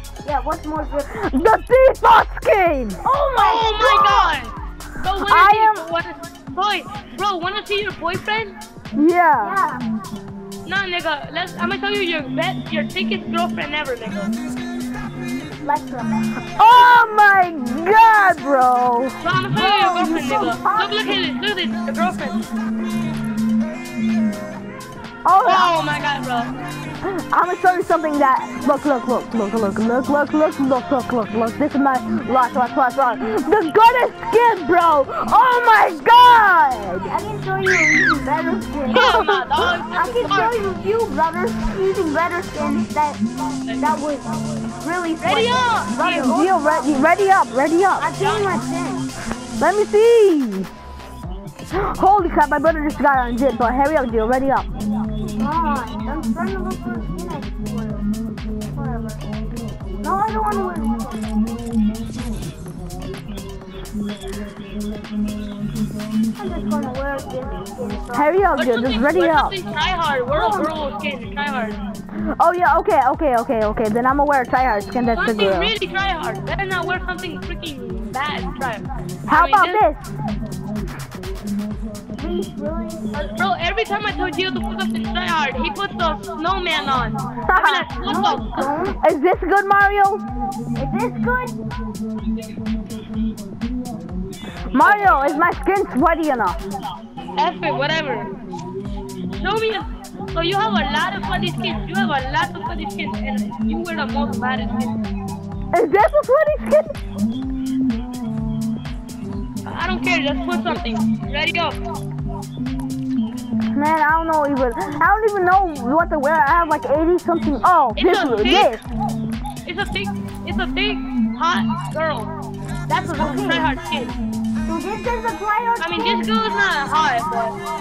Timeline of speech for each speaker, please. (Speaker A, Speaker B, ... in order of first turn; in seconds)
Speaker A: 0.2-1.5, 3.0-4.3, 9.4-9.8, 15.6-16.3, 19.5-21.2, 37.0-39.3, 39.9-43.2, 43.8-47.1, 48.0-49.1, 55.2-58.1, 58.7-59.2, 60.0-61.3, 66.3-68.4, 70.3-70.8, 82.2-83.1, 88.0-89.0, 90.7-91.6, 123.2-123.7, 124.6-126.3
Speaker B: 1.1-3.0, 5.2-5.9, 8.9-9.6, 16.6-19.2, 25.2-25.7, 27.0-37.1, 38.9-39.4, 46.2-48.1, 49.6-50.7, 51.7-54.7, 68.1-69.5, 72.3-75.7, 79.3-80.1, 87.5-87.9, 88.8-90.2, 94.7-96.6, 105.7-107.0, 113.7-118.8
Speaker C: 3.3-8.6, 10.6-14.3, 19.2-22.4, 25.4-26.5, 38.9-40.6, 45.2-46.4, 48.2-48.6, 68.5-71.8, 75.1-79.8, 83.1-88.7, 94.8-95.4, 97.3-98.3, 99.4-105.0, 109.6-111.8, 118.0-118.8, 119.6-122.3, 122.9-124.1, 125.8-127.6